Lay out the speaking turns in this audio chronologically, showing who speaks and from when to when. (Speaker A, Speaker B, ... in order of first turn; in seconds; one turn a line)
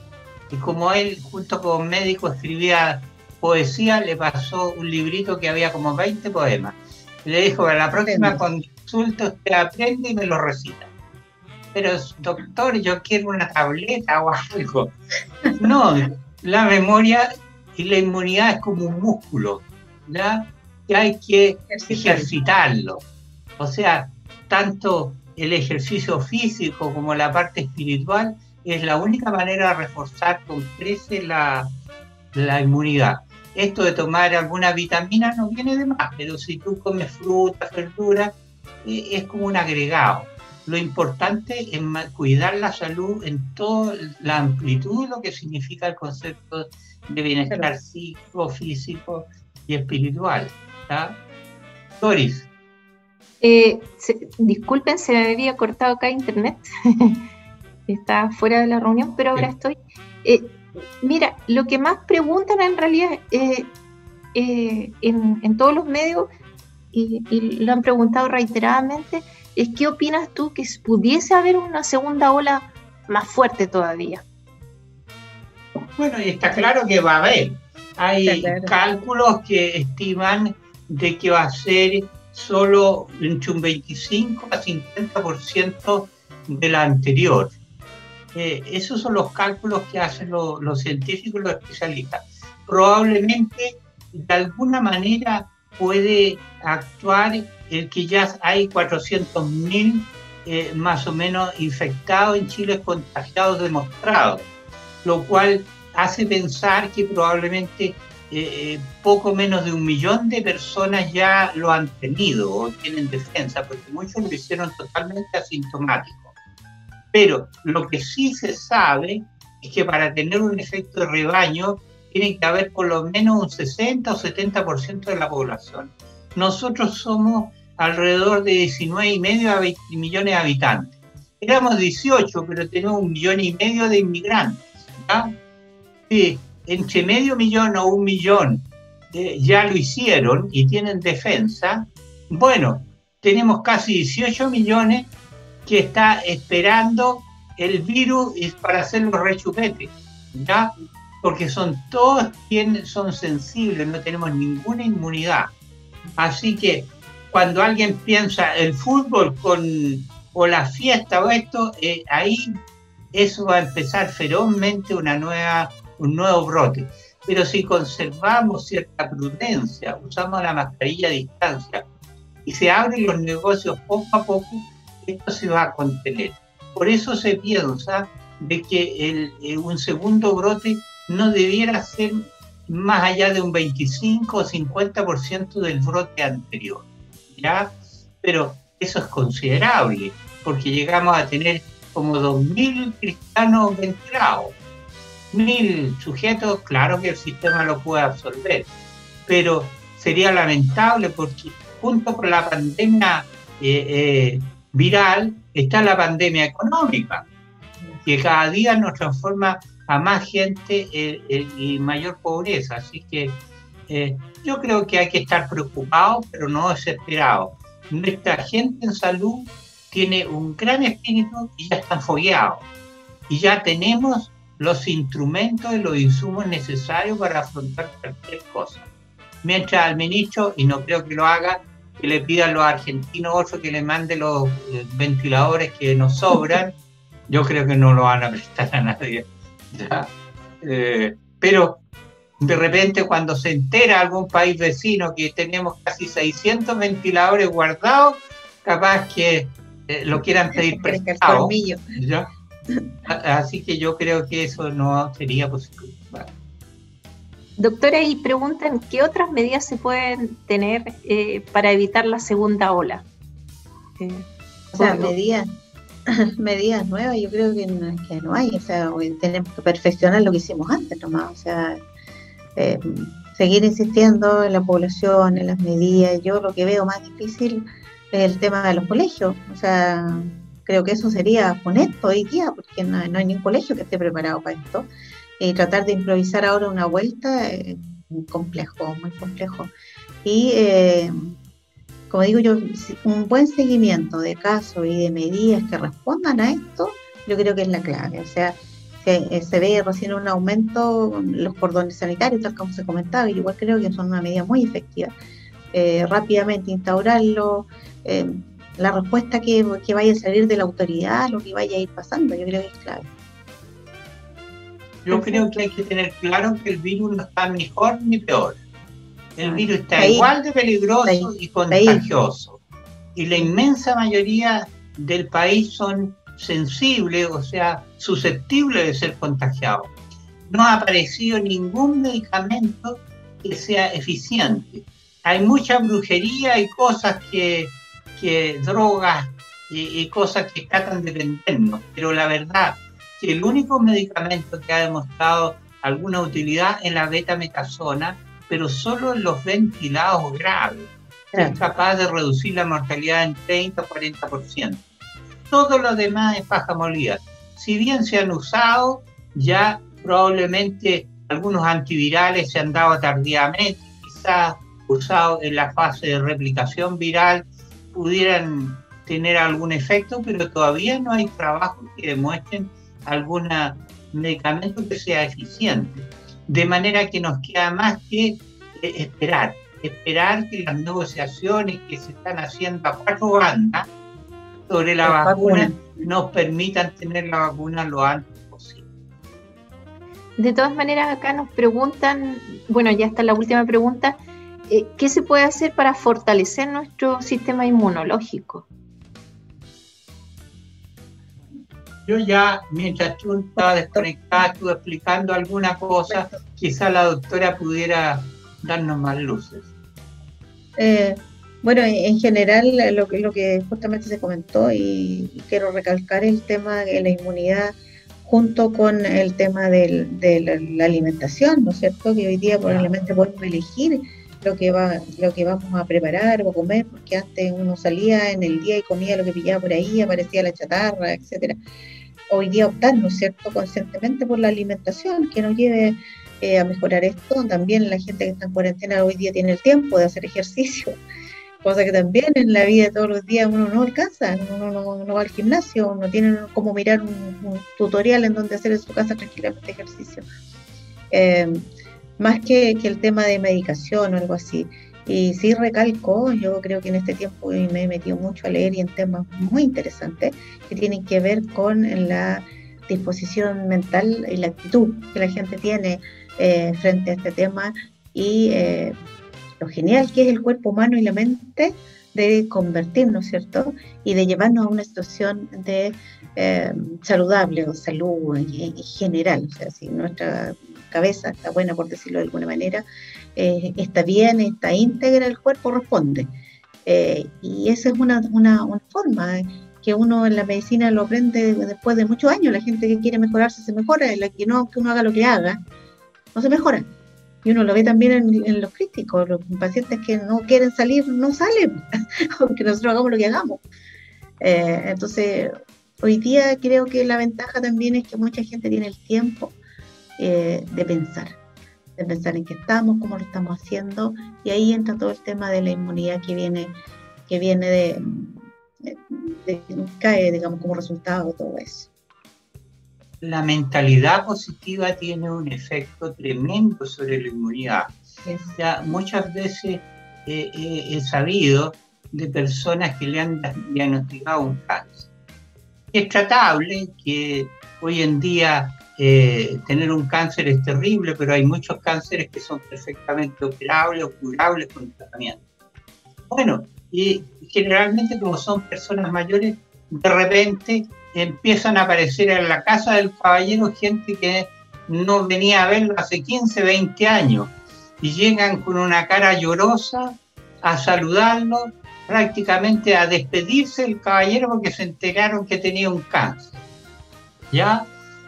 Speaker A: 0.5-10.9
Speaker B: 8.0-8.4
Speaker A: 11.7-14.9
Speaker A: 15.6-23.0
Speaker B: 21.7-22.3
Speaker A: 23.6-31.7
Speaker A: 32.3-51.2
Speaker B: 47.5-47.7
Speaker A: 52.0-52.5
Speaker C: 53.4-57.2
Speaker C: 57.9-63.7
Speaker C: 64.3-66.3
Speaker C: 66.9-74.2
Speaker A: 76.0-87.5
Speaker B: 78.2-78.8
Speaker A: 88.3-104.5
Speaker A: 105.0-116.3
Speaker A: 117.1-135.4
Speaker A: 136.1-145.1
Speaker A: 145.7-155.5
Speaker A: 156.2-162.6
Speaker A: 163.1-171.8
Speaker A: 172.4-194.6
Speaker A: 195.3-198.7
Speaker A: 199.3-207.2
Speaker A: 208.0-222.7
Speaker A: 223.3-228.9
Speaker A: 229.4-236.8
Speaker A: 237.3-241.8
Speaker A: 242.4-252.3
Speaker B: 250.1-251.8
Speaker A: 253.1-256.3
Speaker C: 257.6-263.1
Speaker C: 264.0-265.1
Speaker B: 264.7-265.5
Speaker B: 266.1-271.8
Speaker B: 272.6-284.9
Speaker B: 285.4-289.7
Speaker B: 290.2-291.3
Speaker B: 292.1-305.1
Speaker B: 305.7-313.1
Speaker A: 315.1-318.6
Speaker B: 315.1-315.4
Speaker A: 319.4-322.6
Speaker B: 319.4-320.3
Speaker B: 321.1-322.1
Speaker A: 323.1-329.9
Speaker A: 330.5-354.8
Speaker B: 351.3-351.6
Speaker A: 355.5-383.9
Speaker A: 384.7-388.9
Speaker B: 385.0-386.1
Speaker C: 390.4-398.7
Speaker A: 402.1-409.7
Speaker B: 403.6-404.1
Speaker B: 406.1-406.4
Speaker B: 410.8-431.6
Speaker B: 432.3-441.0
Speaker B: 441.6-450.3
Speaker B: 451.1-451.6
Speaker B: 452.2-468.9
Speaker B: 469.6-482.8
Speaker B: 483.4-486.3
Speaker B: 486.9-495.6
Speaker B: 496.4-496.9
Speaker B: 497.4-501.8
Speaker B: 502.4-503.6
Speaker B: 504.4-505.5
Speaker B: 506.0-509.6
Speaker B: 510.2-511.4
Speaker B: 512.0-516.7
Speaker B: 517.3-521.9
Speaker A: 523.2-528.0
Speaker B: 528.3-528.6
Speaker A: 528.6-535.1
Speaker A: 535.9-545.4
Speaker A: 546.3-566.6
Speaker A: 567.5-567.9